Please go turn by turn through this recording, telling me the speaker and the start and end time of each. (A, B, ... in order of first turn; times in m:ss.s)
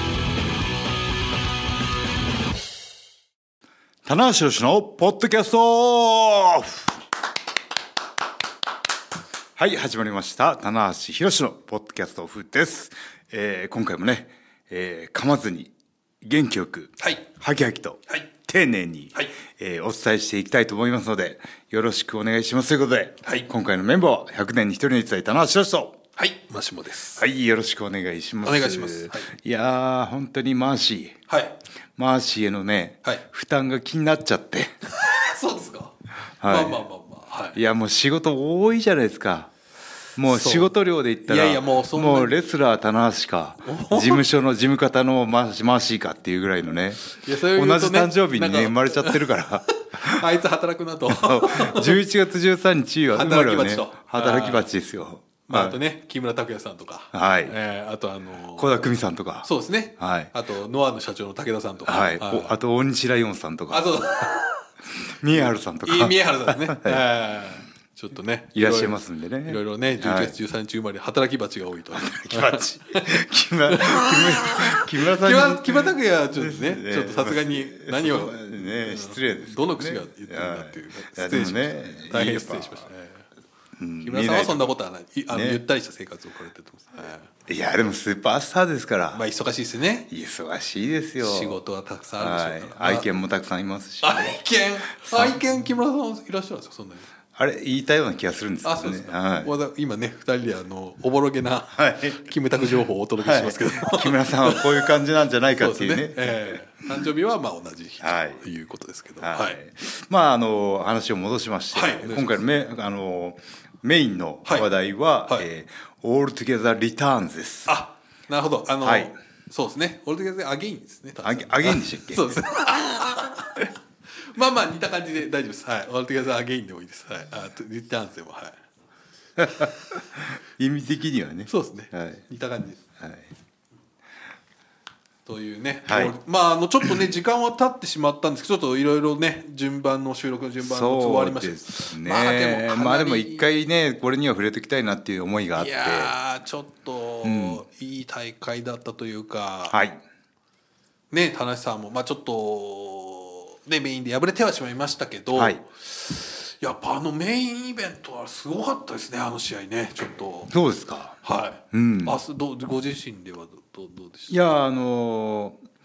0:04.0-0:07.0 A
0:09.6-0:15.7 A
0:16.2-0:26.0 A
0:17.0-0:17.2 B
0:23.2-0:23.5 B
0:26.2-0:27.2 B
0:27.2-0:31.2 A
0:28.4-0:29.3 B
0:31.3-0:31.6 B
0:32.0-0:34.7 A
0:34.8-0:37.6 B
0:36.4-0:36.8 A
0:37.5-0:39.5 A
0:40.2-0:50.2 A
0:40.3-0:40.7 B
0:41.2-0:42.4 B
0:43.6-0:44.2 B
0:47.1-0:52.0 B
0:51.1-0:55.8 A
0:53.1-0:54.7 B
0:55.5-0:58.8 B
0:57.1-0:57.5 A
0:58.6-1:00.3 A
0:59.4-1:02.6 B
1:01.8-1:04.0 A
1:03.7-1:04.6 B
1:05.0-1:07.0 A
1:05.3-1:23.3 B
1:08.5-1:10.3 A
1:11.9-1:22.9 A
1:23.8-1:24.7 A
1:24.0-1:27.3 B
1:25.3-1:25.6 A
1:27.4-1:29.2 A
1:29.1-1:30.1 B
1:30.1-1:31.6 A
1:31.2-1:33.1 B
1:32.2-1:34.4 A
1:34.0-1:37.1 B
1:35.0-1:35.4 A
1:37.3-1:39.5 A
1:38.6-1:44.9 B
1:41.7-1:46.6 A
1:45.5-1:49.6 B
1:48.0-1:48.4 A
1:49.2-1:57.7 A
1:51.7-1:52.5 B
1:54.4-1:54.7 B
1:57.7-2:03.7 B
1:58.8-1:59.2 A
2:01.2-2:02.4 A
2:04.2-2:08.6 B
2:09.4-2:12.2 A
2:11.5-2:12.8 B
2:13.0-2:13.3 A
2:15.2-2:23.5 B
2:15.8-2:16.1 A
2:20.6-2:26.1 A
2:25.6-2:29.8 B
2:27.2-2:27.6 A
2:29.7-2:30.0 A
2:31.1-2:40.5 B
2:35.3-2:35.6 A
2:40.5-2:41.2 A
2:41.2-2:44.5 B
2:41.7-2:42.2 A
2:44.3-2:45.6 A